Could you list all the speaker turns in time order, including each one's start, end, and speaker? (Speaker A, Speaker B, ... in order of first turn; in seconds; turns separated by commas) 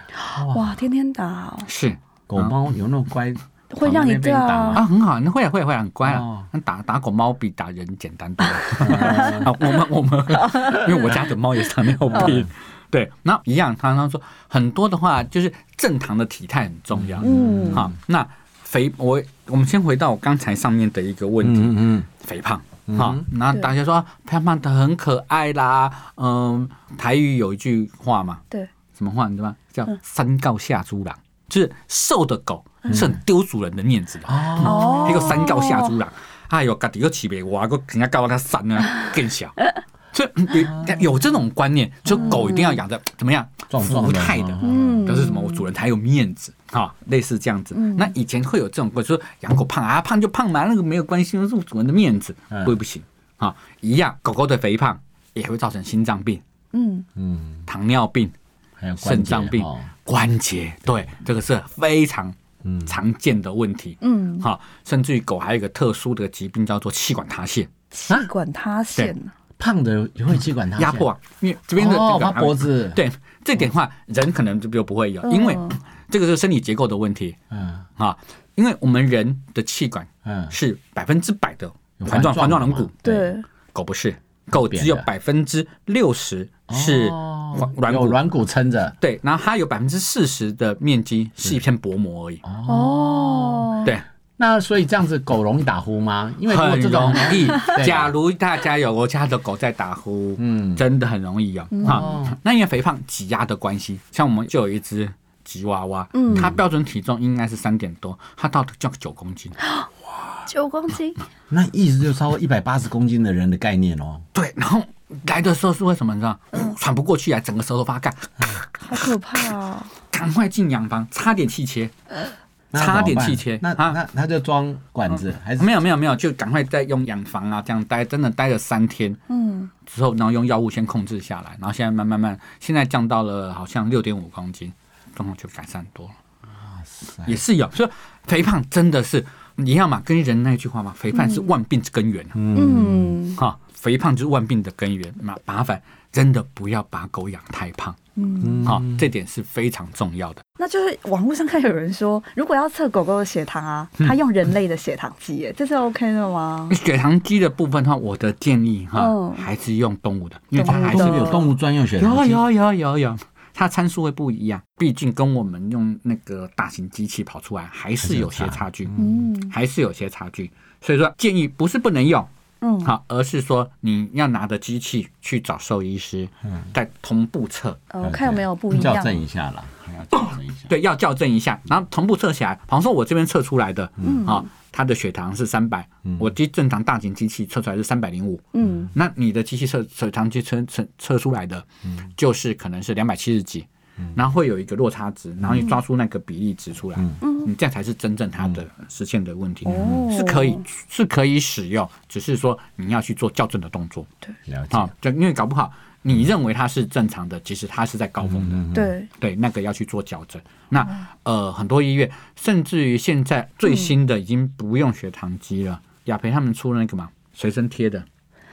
Speaker A: 0.2-1.7, Speaker B: 0.4-0.8, Speaker C: 1.7-2.5, Speaker B: 2.3-4.8, Speaker A: 3.7-4.8, Speaker C: 4.7-28.4, Speaker B: 6.0-6.5, Speaker A: 8.8-9.7, Speaker B: 8.8-9.5, Speaker A: 10.4-11.2, Speaker B: 12.1-12.5, Speaker B: 17.0-17.9, Speaker A: 17.2-17.9, Speaker B: 21.4-22.1, Speaker B: 22.9-23.2, Speaker C: 28.9-56.4, Speaker B: 32.9-33.2, Speaker B: 34.3-35.4, Speaker A: 34.6-36.0, Speaker A: 42.2-42.7, Speaker B: 43.7-45.1, Speaker A: 44.6-45.6, Speaker A: 47.8-48.1, Speaker B: 52.5-52.8, Speaker A: 56.7-57.1, Speaker B: 57.2-57.6, Speaker C: 57.7-58.3, Speaker B: 58.8-59.9, Speaker C: 59.0-67.7, Speaker B: 62.6-62.9, Speaker A: 64.0-64.5, Speaker A: 67.9-69.3, Speaker B: 69.6-71.1, Speaker C: 70.8-77.4, Speaker B: 71.8-73.0, Speaker A: 75.2-75.8, Speaker B: 77.5-77.8, Speaker C: 78.0-83.0, Speaker B: 80.2-80.5, Speaker B: 82.0-83.3, Speaker A: 83.0-83.5, Speaker C: 83.7-88.2, Speaker B: 84.5-85.1, Speaker B: 86.7-89.0, Speaker C: 89.0-92.4, Speaker B: 92.4-98.1, Speaker A: 92.7-93.9, Speaker C: 96.5-109.6, Speaker B: 100.4-100.8, Speaker A: 101.7-102.2, Speaker B: 101.8-102.4, Speaker A: 106.1-106.6, Speaker B: 106.3-106.6, Speaker A: 110.5-111.2, Speaker B: 111.5-114.3, Speaker C: 114.3-118.8, Speaker A: 118.8-119.9, Speaker C: 120.1-121.9, Speaker B: 122.7-125.7, Speaker C: 122.8-124.0, Speaker C: 125.1-129.2, Speaker A: 129.3-129.7, Speaker C: 129.8-136.2, Speaker B: 136.6-137.4, Speaker C: 137.3-142.4, Speaker A: 141.1-141.5, Speaker B: 142.4-143.2, Speaker A: 142.5-143.4, Speaker C: 143.4-148.0, Speaker A: 148.2-148.8, Speaker B: 148.4-149.1, Speaker C: 148.6-150.4, Speaker A: 150.6-156.8, Speaker C: 156.7-168.9, Speaker A: 158.9-159.4, Speaker A: 160.6-161.4, Speaker B: 160.6-162.4, Speaker B: 168.0-169.2, Speaker A: 169.0-169.5, Speaker C: 169.5-172.3, Speaker A: 172.6-172.9, Speaker C: 172.8-177.8, Speaker A: 177.9-179.2, Speaker B: 178.0-180.7, Speaker C: 180.2-191.7, Speaker A: 184.0-184.5, Speaker A: 188.5-188.9, Speaker B: 188.6-188.9, Speaker C: 192.2-204.1, Speaker B: 195.4-195.7, Speaker A: 197.2-197.5, Speaker A: 199.7-200.6, Speaker B: 199.7-200.1, Speaker B: 204.5-204.9, Speaker C: 204.7-218.1, Speaker B: 208.2-208.9, Speaker A: 208.7-209.1